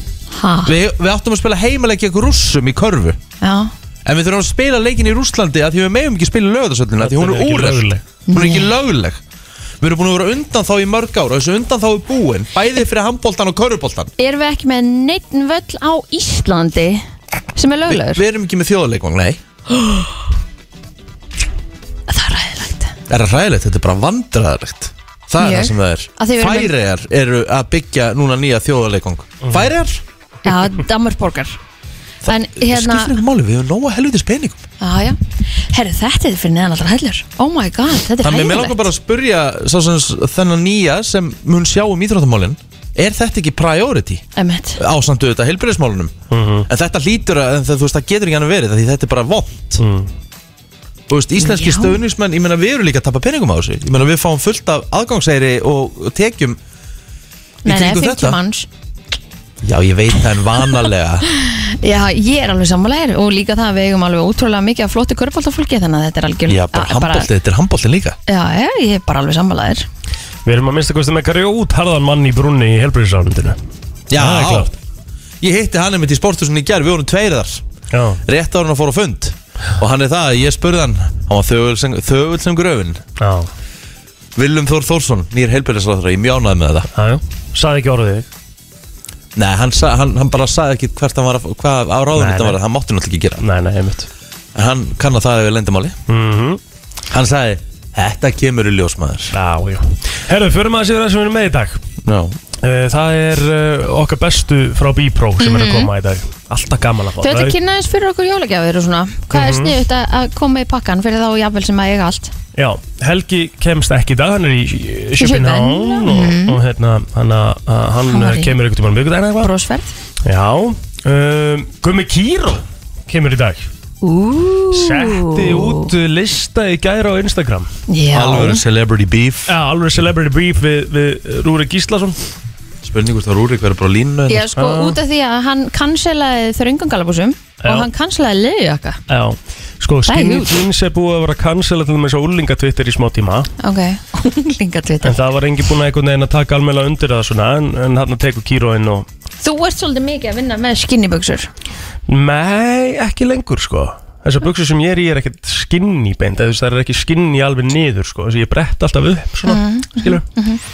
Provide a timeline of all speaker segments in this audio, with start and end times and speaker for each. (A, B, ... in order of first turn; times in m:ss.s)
0:00.3-0:00.7 A
0:00.6-0:03.2 B
0:03.4-0:03.7 A
0:04.0-0:09.2 B
0:07.0-0:08.0 C
0:08.3-0:08.7 A
0:09.8-0:14.1 B
0:14.2-0:18.2 A
0:17.9-0:19.4 B
0:19.8-0:20.1 A
0:22.1-0:23.0 A
0:23.1-0:30.0 B
0:25.4-0:26.7 A
0:29.4-0:29.7 C
0:30.4-0:31.6 A
0:32.2-0:34.6 B
0:32.3-0:33.1 A
0:34.8-0:38.9 A
0:38.2-0:44.2 B
0:44.4-0:44.8 A
0:44.8-0:46.1 B
0:46.3-0:46.7 C
0:46.7-0:49.8 B
0:49.8-0:50.1 C
0:51.1-0:56.6 B
0:51.4-0:52.0 A
0:57.6-0:58.4 B
0:57.6-0:58.7 A
0:59.6-1:01.3 B
1:01.4-1:07.3 A
1:06.5-1:08.2 B
1:08.3-1:09.9 A
1:10.5-1:13.6 C
1:14.1-1:14.7 B
1:14.1-1:14.7 C
1:15.4-1:17.6 B
1:17.9-1:18.2 C
1:18.3-1:23.0 B
1:23.2-1:23.5 C
1:24.4-1:26.9 B
1:27.0-1:28.3 C
1:29.4-1:33.4 B
1:32.2-1:32.6 C
1:33.4-1:34.1 C
1:34.6-1:36.0 B
1:36.1-1:36.6 C
1:37.1-1:39.4 B
1:39.3-1:41.8 C
1:42.0-1:42.4 B
1:42.6-1:47.6 C
1:45.4-1:45.9 A
1:47.2-1:52.3 A
1:49.3-1:49.7 C
1:52.6-1:59.5 C
1:55.2-1:56.6 A
1:58.1-1:58.5 A
1:59.4-2:00.0 A
2:00.2-2:03.7 C
2:04.0-2:05.9 A
2:04.7-2:07.7 C
2:07.9-2:08.6 A
2:08.1-2:09.5 B
2:09.5-2:12.2 C
2:12.8-2:14.5 B
2:14.3-2:19.0 A
2:14.6-2:15.0 C
2:19.1-2:23.5 C
2:20.1-2:20.6 A
2:23.6-2:25.2 A
2:25.0-2:29.1 C
2:29.4-2:31.5 A
2:32.1-2:40.2 C
2:39.5-2:40.6 A